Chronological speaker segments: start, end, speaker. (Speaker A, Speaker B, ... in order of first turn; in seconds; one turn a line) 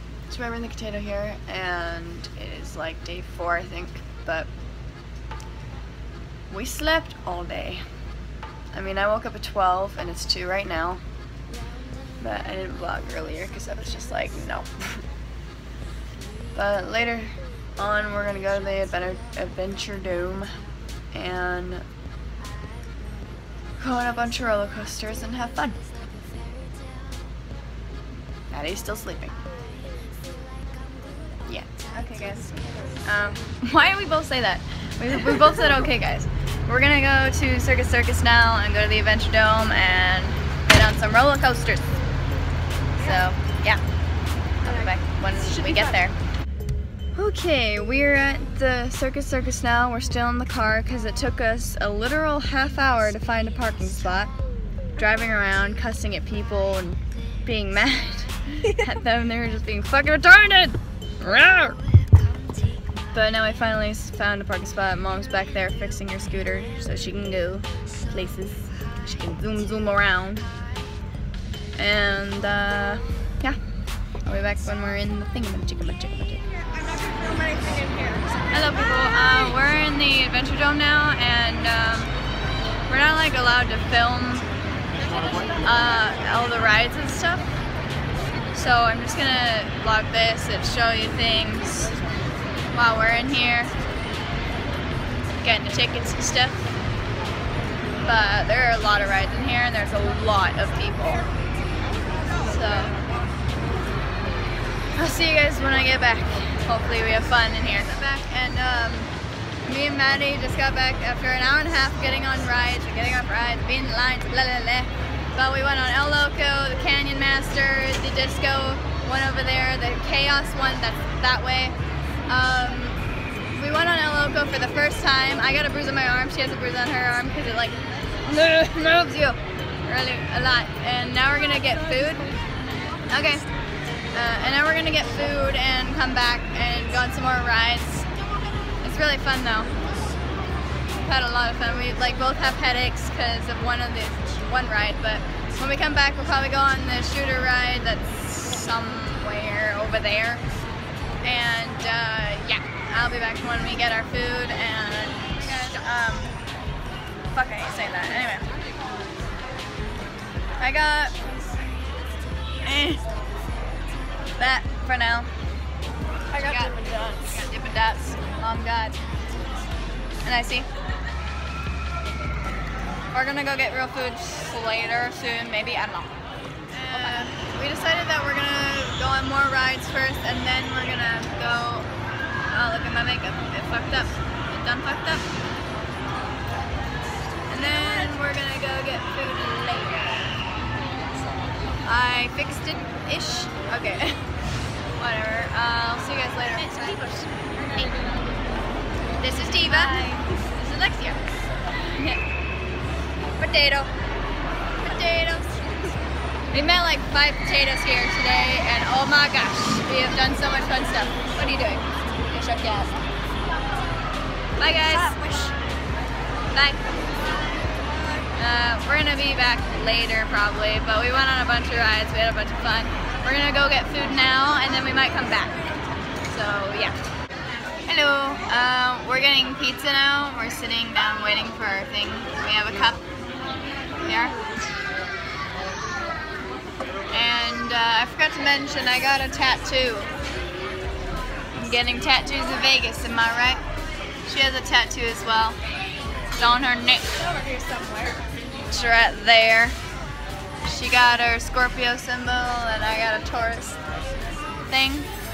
Speaker A: 0.3-4.5
Speaker A: 6.5-7.8
Speaker A: 8.7-11.0
Speaker A: 12.2-14.7
Speaker A: 16.6-20.5
Speaker A: 21.1-21.9
Speaker A: 23.8-25.8
Speaker A: 28.5-29.4
Speaker A: 31.5-42.0
Speaker A: 43.0-43.8
Speaker A: 44.6-46.1
Speaker B: 45.5-45.9
Speaker A: 47.1-54.3
Speaker A: 55.0-61.8
Speaker A: 63.1-70.5
Speaker A: 71.8-73.6
Speaker A: 74.2-76.5
Speaker A: 78.5-82.1
Speaker A: 82.9-84.5
Speaker A: 85.6-87.6
Speaker A: 88.5-92.0
Speaker A: 92.7-93.7
Speaker A: 95.4-96.7
Speaker A: 98.0-101.3
Speaker A: 102.4-102.9
Speaker A: 105.0-109.1
Speaker A: 109.7-121.8
Speaker A: 122.3-123.0
Speaker A: 123.5-132.3
Speaker A: 133.1-133.4
Speaker A: 134.1-138.1
Speaker A: 138.8-139.7
Speaker A: 141.0-150.4
Speaker A: 151.2-156.3
Speaker A: 157.3-158.5
Speaker A: 160.6-161.2
Speaker A: 162.6-163.1
Speaker A: 164.4-165.3
Speaker B: 166.3-167.3
Speaker A: 166.3-169.0
Speaker A: 170.2-170.7
Speaker A: 173.1-176.1
Speaker A: 176.7-181.9
Speaker B: 176.9-177.3
Speaker A: 182.5-185.3
Speaker A: 187.5-190.4
Speaker A: 191.8-194.2
Speaker A: 195.0-197.9
Speaker A: 199.2-201.2
Speaker A: 201.9-202.2
Speaker A: 203.4-203.9
Speaker A: 204.8-205.8
Speaker A: 206.5-212.9
Speaker A: 214.6-215.2
Speaker B: 215.0-215.5
Speaker A: 216.5-216.8
Speaker A: 218.4-225.5
Speaker A: 226.3-227.0
Speaker A: 227.9-233.0
Speaker A: 234.0-234.4
Speaker A: 237.1-240.1
Speaker A: 241.5-243.7
Speaker A: 244.3-245.6
Speaker A: 246.4-247.1
Speaker B: 247.2-248.2
Speaker A: 248.7-249.8
Speaker A: 250.6-253.8
Speaker A: 254.7-255.1